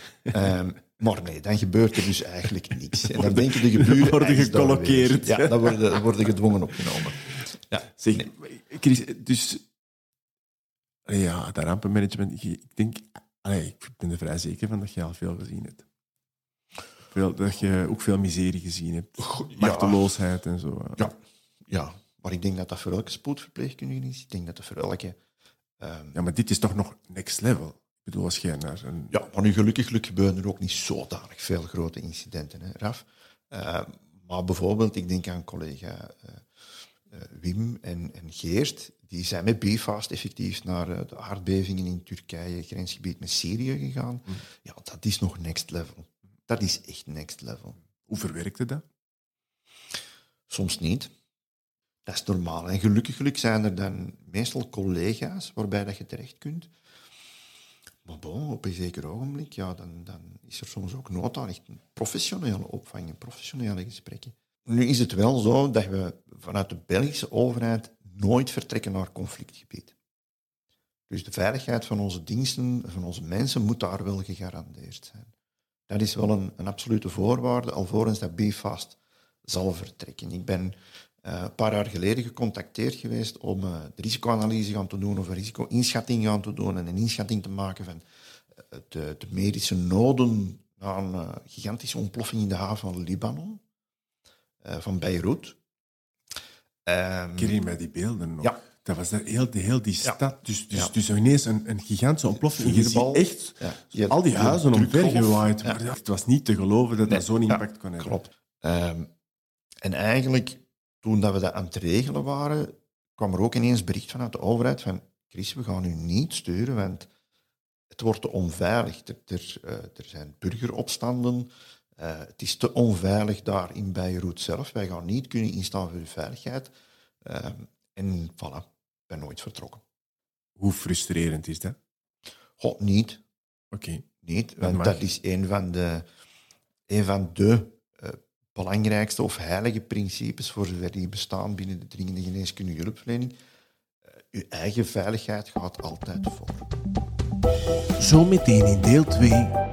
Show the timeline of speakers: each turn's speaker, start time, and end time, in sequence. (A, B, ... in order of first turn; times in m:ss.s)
0:00.3-0:08.3 A
0:03.0-0:06.1 B
0:06.7-0:09.6 B
0:11.1-0:15.8 B
0:17.1-0:21.1 B
0:19.6-0:20.1 A
0:21.7-0:25.1 A
0:25.8-0:26.2 A
0:26.1-0:29.1 B
0:29.1-0:36.4 A
0:37.1-0:47.8 A
0:48.0-0:48.8 B
0:50.5-0:51.1 A
0:52.0-0:56.7 A
0:58.0-1:09.9 A
1:11.1-1:15.3 A
1:15.9-1:28.0 A
1:28.7-1:33.6 A
1:34.6-1:35.6 A
1:36.8-1:37.6 A
1:37.4-1:48.3 B
1:42.3-1:45.8 A
1:47.1-1:49.1 A
1:49.8-1:57.1 A
1:57.9-2:06.7 A
2:07.2-2:09.8 A
2:10.6-2:11.8 B
2:12.6-2:13.2 A
2:13.7-2:14.1 B
2:14.2-2:16.0 A
2:14.6-2:15.0 B
2:16.9-2:23.3 A
2:24.2-2:26.7 A
2:28.0-2:29.6 B